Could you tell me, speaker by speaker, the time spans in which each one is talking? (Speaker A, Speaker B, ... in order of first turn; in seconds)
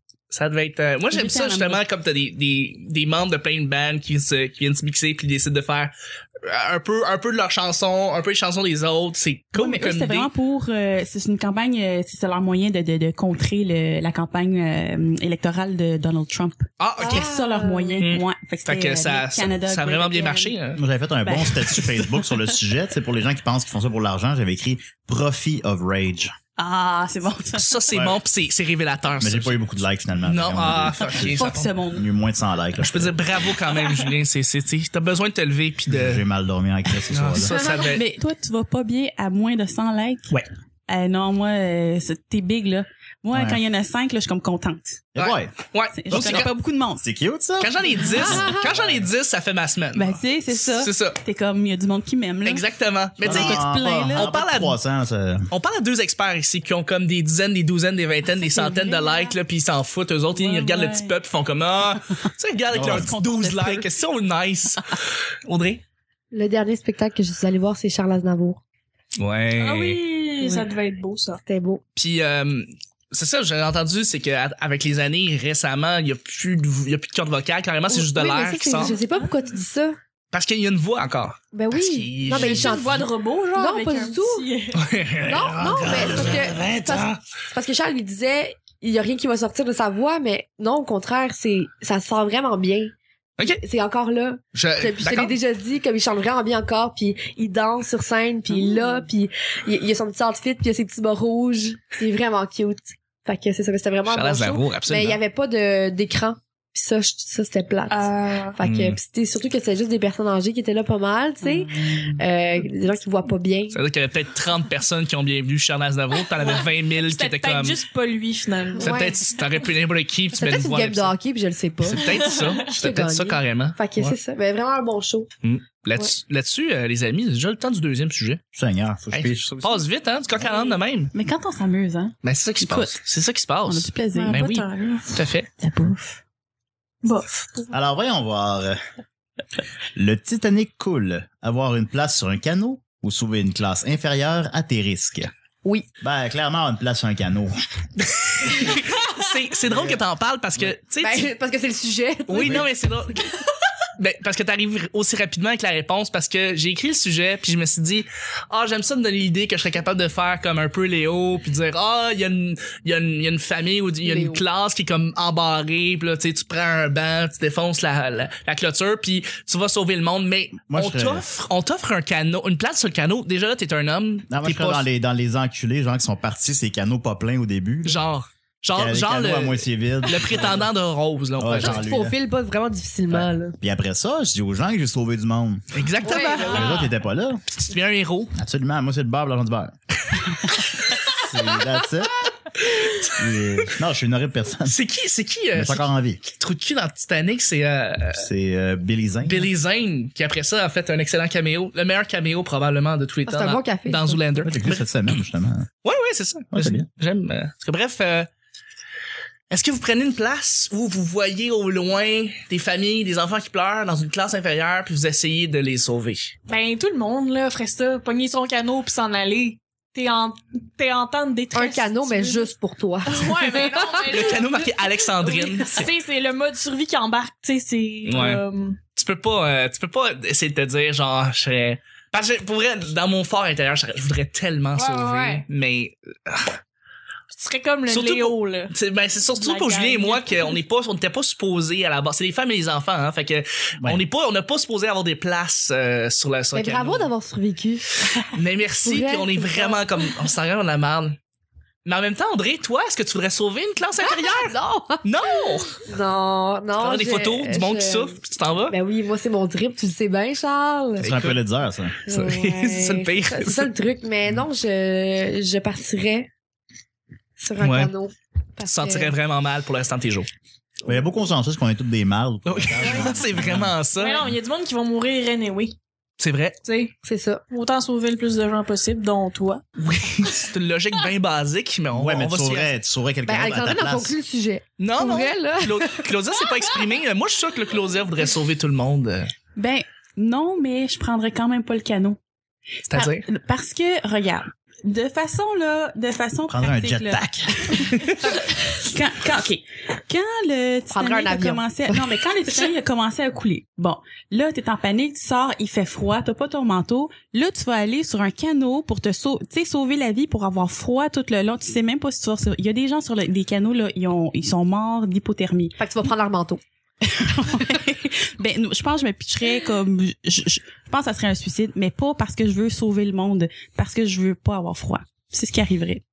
Speaker A: 0.3-10.3, 16.8-17.3, 18.0-20.8, 27.6-29.6, 30.2-31.7, 32.8-36.2, 37.1-38.1, 45.2-46.5, 47.6-51.2, 52.4-54.8, 55.5-65.8, 69.2-70.0, 72.0-79.0, 80.3-83.1, 84.8-87.2, 94.5-95.3, 104.1-105.2, 108.6-109.0, 113.7-117.8, 118.8-121.2, 121.8-124.2, 125.4-128.4, 129.1-131.1, 132.2-135.5, 148.0-151.3, 152.3-153.3, 154.0-174.9, 177.9-181.8, 185.7-186.9, 187.5-188.3, 190.5-191.0, 192.6-193.1, 194.7-198.3, 199.2-205.2, 205.8-208.3, 209.5-216.3, 224.1-225.9, 228.1-228.4, 228.9-236.6, 237.9-247.1, 248.3-251.2, 251.8-255.8, 256.8-258.8, 261.0-261.4, 262.1-263.7, 267.6-267.9, 268.6-270.3, 272.5-274.3, 276.2-276.6, 279.8-282.7, 284.8-289.3, 292.9-293.2
Speaker B: 1.1-1.9, 9.5-20.5, 21.2-21.9, 26.6-27.8, 31.3-32.1, 37.8-40.4, 40.9-45.0, 45.9-47.0, 48.0-48.4, 49.9-52.6, 53.2-54.3, 58.5-59.4, 60.3-61.1, 62.9-63.9, 111.7-111.9, 131.1-133.0, 133.7-134.7, 135.6-136.0, 186.1-186.8, 289.6-292.2, 292.9-315.8, 317.0-326.0
Speaker C: 17.0-18.0, 48.3-48.7, 66.3-68.6, 70.4-70.7, 71.4-71.8, 77.9-80.0, 81.5-84.5, 85.2-113.8, 118.8-119.2, 120.3-125.3, 151.0-152.7, 164.0-164.4, 181.6-183.6, 186.0-186.7, 203.3-204.2, 221.5-224.2, 246.5-248.1, 248.8-249.9, 254.0-258.2, 258.7-261.1, 262.1-266.3, 267.4-269.1, 272.8-273.1, 277.0-277.4, 283.2-286.1, 300.9-302.1, 315.8-316.6
Speaker D: 20.8-26.3, 27.9-28.2, 29.2-33.2, 35.9-37.6, 43.3-43.6, 45.1-45.5, 46.1-49.0, 53.2-55.5, 62.7-63.1, 128.5-129.9, 137.7-138.8, 140.0-145.3, 146.0-147.6, 149.7-150.0, 152.3-152.7, 170.7-171.2, 174.3-178.0, 178.7-180.7, 181.4-182.2, 183.1-185.6, 186.4-187.4, 188.3-189.7, 191.1-192.1, 193.1-194.8, 195.5-196.2, 198.1-199.5, 204.4-205.7, 206.5-206.9, 261.0-262.0, 270.9-274.4, 281.9-284.1, 296.5-297.8
Speaker E: 69.6-71.4, 78.8-79.3, 82.3-84.8, 107.9-108.6, 116.4-119.1, 122.0-122.6, 134.1-135.1, 137.0-137.7, 216.5-222.5, 223.1-228.8, 234.8-235.5, 237.3-238.7, 239.3-240.6, 274.0-275.8, 276.6-276.9, 277.5-279.6